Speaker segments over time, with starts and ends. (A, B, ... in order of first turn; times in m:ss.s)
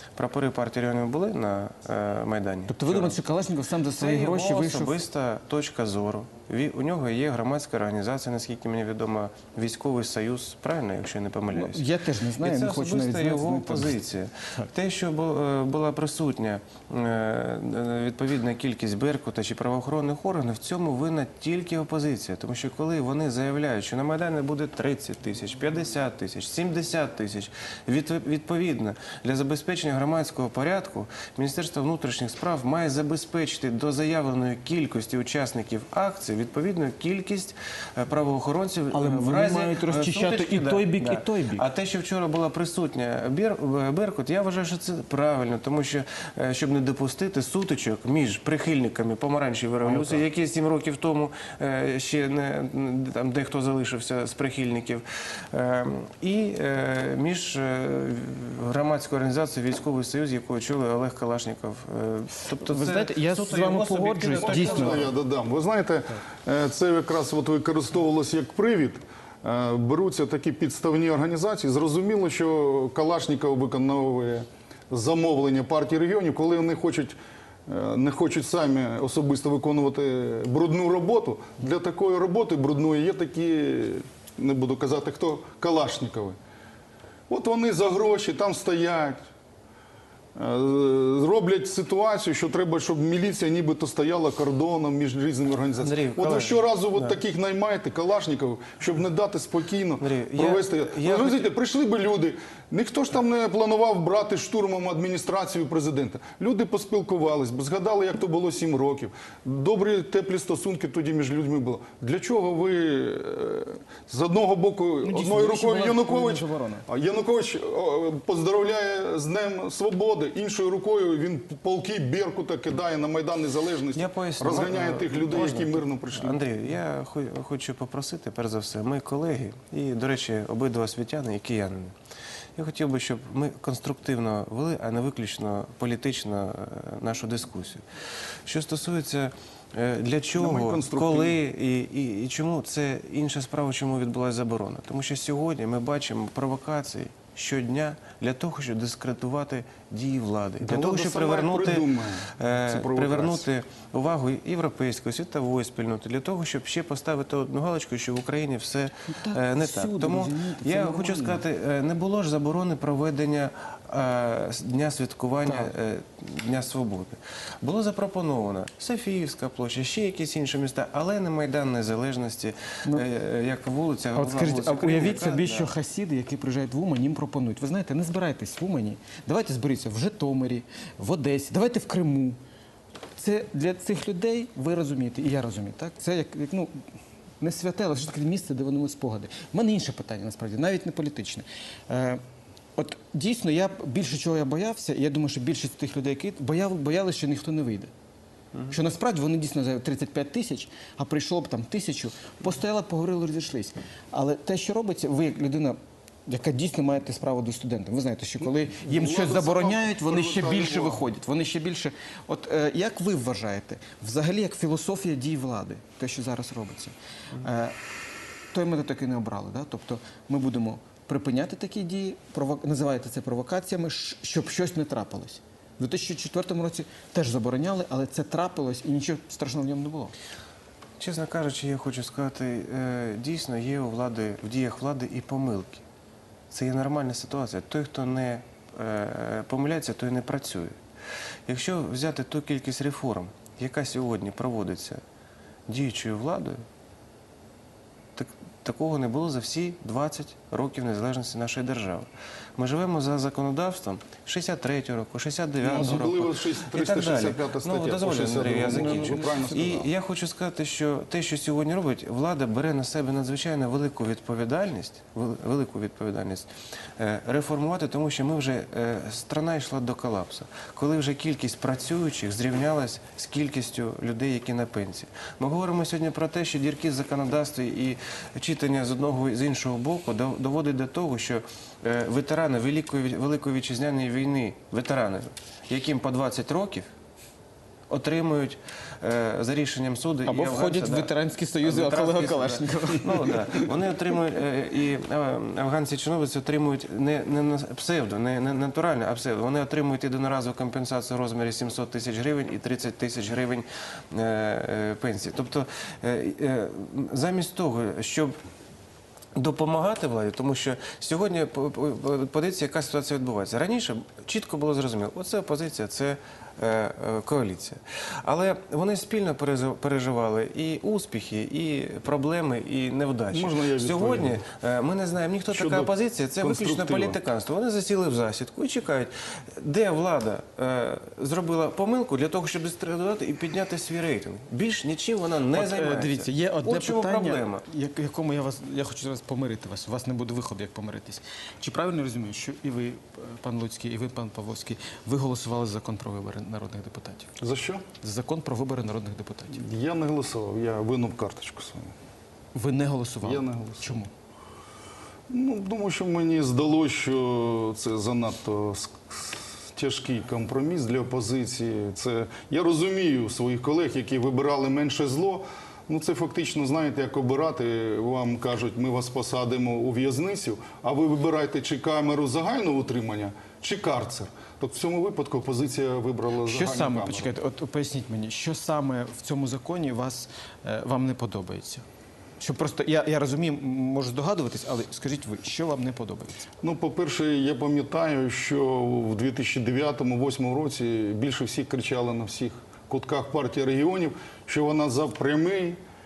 0:00.2-0:03.2 A
0:02.7-0:05.0 B
0:04.0-0:11.8 A
0:11.5-0:14.0 B
0:12.4-1:05.1 A
0:38.9-0:41.6 B
0:49.8-0:50.2 B
1:02.5-1:05.0 B
1:04.4-1:26.4 C
1:27.3-1:29.2 C
1:30.3-2:06.4 C
1:35.8-1:37.2 A
1:40.0-1:41.5 A
1:55.0-1:56.9 B
2:03.9-2:12.0 A
2:12.6-2:55.7 A
2:20.4-2:21.4 C
2:30.6-2:33.5 C
2:39.1-2:41.4 B
2:45.4-2:45.7 B
2:54.2-3:02.4 B
3:03.2-3:06.8 B
3:07.4-3:12.2 B
3:12.8-3:17.9 B
3:18.7-3:37.8 B
3:28.4-3:31.0 C
3:38.5-3:50.1 B
3:51.0-3:55.8 A
3:56.5-4:00.8 A
4:01.4-4:05.0 A
4:05.7-4:06.6 A
4:08.2-4:46.9 A
4:15.6-4:19.9 C
4:18.4-4:19.8 B
4:47.9-5:08.4 A
4:50.2-4:53.7 B
5:09.3-5:37.6 A
5:23.3-5:24.4 C
5:25.5-5:27.2 C
5:35.5-5:47.3 B
5:47.4-5:47.8 C
5:48.0-5:49.6 B
5:49.5-5:51.9 C
5:52.5-5:54.1 B
5:53.2-5:54.0 C
5:55.3-6:17.3 C
6:16.4-6:21.8 B
6:22.4-6:26.5 B
6:26.6-6:35.8 C